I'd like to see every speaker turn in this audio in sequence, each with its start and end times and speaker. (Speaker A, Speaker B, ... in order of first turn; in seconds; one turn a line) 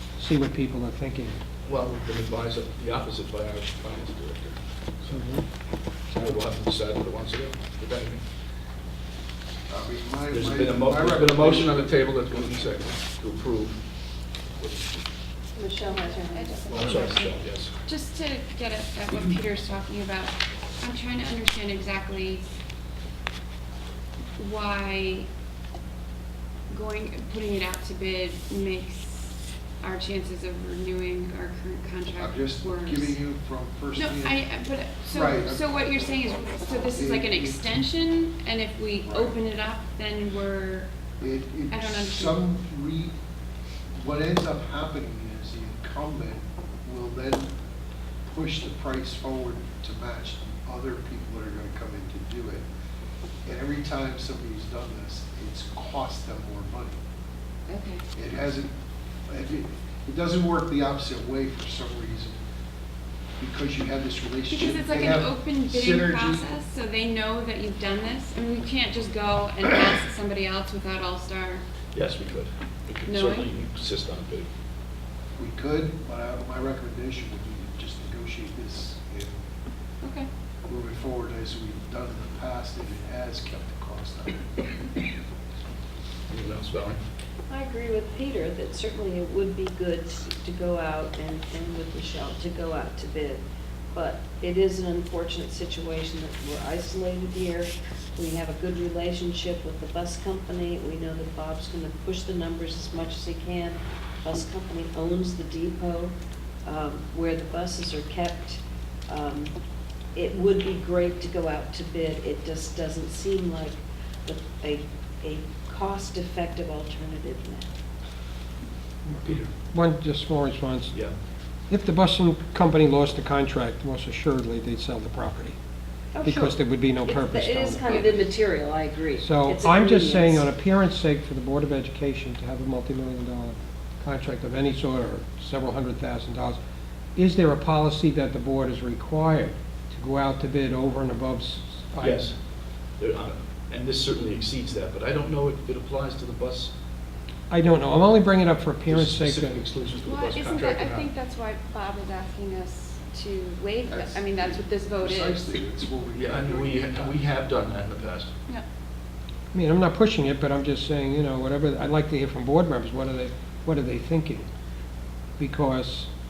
Speaker A: 0.2-1.4
Speaker B: 1.6-5.2
Speaker A: 5.1-5.4
Speaker A: 6.1-6.4
Speaker B: 6.1-8.2
Speaker C: 9.7-12.6
Speaker B: 10.3-13.8
Speaker B: 14.6-15.0
Speaker D: 15.5-17.2
Speaker E: 15.9-22.4
Speaker B: 16.7-17.7
Speaker E: 24.4-25.3
Speaker E: 26.7-33.2
Speaker C: 32.1-34.5
Speaker E: 34.0-40.9
Speaker C: 35.1-35.6
Speaker C: 36.9-37.7
Speaker C: 39.0-39.4
Speaker C: 41.2-43.1
Speaker E: 41.7-42.4
Speaker C: 44.0-47.5
Speaker C: 48.2-52.6
Speaker C: 53.4-57.0
Speaker E: 57.7-58.0
Speaker C: 58.1-58.7
Speaker C: 59.3-62.4
Speaker C: 63.4-66.6
Speaker E: 64.5-71.6
Speaker B: 71.9-74.5
Speaker E: 73.0-73.5
Speaker C: 75.4-79.4
Speaker E: 80.0-80.3
Speaker C: 80.7-84.5
Speaker B: 86.3-87.0
Speaker D: 87.5-109.5
Speaker D: 110.1-117.7
Speaker A: 119.1-121.0
Speaker B: 119.2-119.5
Speaker A: 121.7-125.6
Speaker D: 126.1-130.4
Speaker A: 126.2-128.2
Speaker A: 129.2-136.6
Speaker A: 137.2-142.3
Speaker B: 142.0-142.3
Speaker B: 143.0-146.7
Speaker A: 147.5-149.6
Speaker B: 148.9-151.1
Speaker E: 150.0-155.6
Speaker C: 153.9-157.3
Speaker B: 156.2-158.3
Speaker A: 159.5-164.5
Speaker A: 165.4-166.1